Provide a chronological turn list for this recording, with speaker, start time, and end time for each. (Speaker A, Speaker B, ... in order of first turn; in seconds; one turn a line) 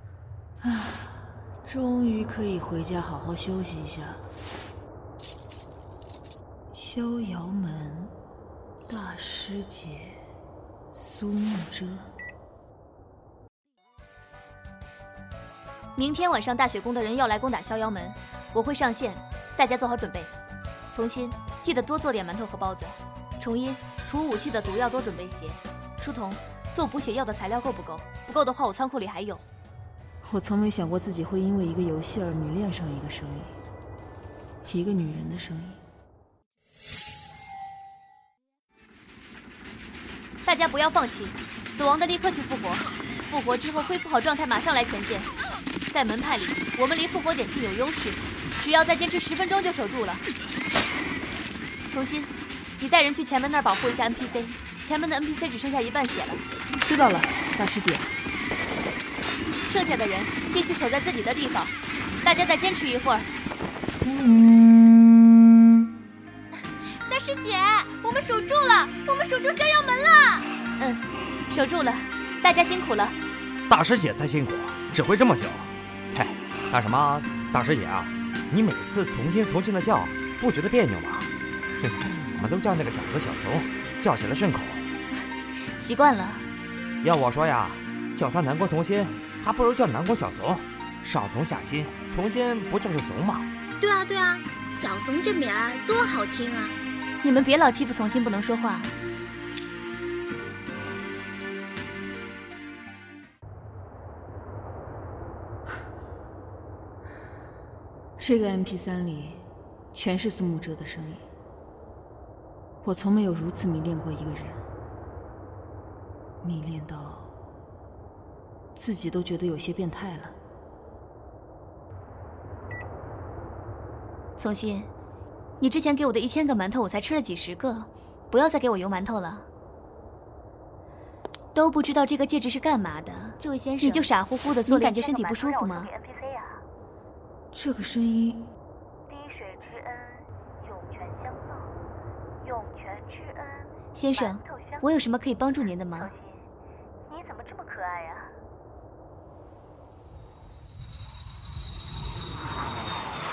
Speaker A: 0.6-4.2
Speaker A: 6.7-8.1
Speaker A: 8.9-10.2
Speaker A: 10.9-12.1
Speaker B: 16.0-20.3
Speaker B: 20.9-29.4
Speaker A: 30.2-33.6
Speaker A: 34.7-35.8
Speaker B: 40.4-45.3
Speaker B: 45.9-50.2
Speaker B: 51.9-56.4
Speaker A: 56.8-58.1
Speaker B: 59.7-61.7
Speaker B: 62.2-63.3
Speaker A: 64.1-64.5
Speaker C: 66.9-70.5
Speaker B: 70.8-73.2
Speaker D: 73.7-81.3
Speaker D: 81.8-84.8
Speaker B: 85.8-86.5
Speaker D: 87.0-93.5
Speaker C: 93.8-96.8
Speaker B: 97.2-98.9
Speaker A: 108.2-111.3
Speaker A: 112.8-114.6
Speaker A: 116.4-117.3
Speaker A: 118.8-120.4
Speaker B: 124.4-124.9
Speaker B: 125.6-129.5
Speaker B: 131.5-135.9
Speaker E: 134.7-136.6
Speaker A: 137.5-138.5
Speaker E: 139.1-141.7
Speaker E: 142.4-144.9
Speaker B: 143.9-146.1
Speaker E: 145.9-146.5
Speaker E: 147.1-148.3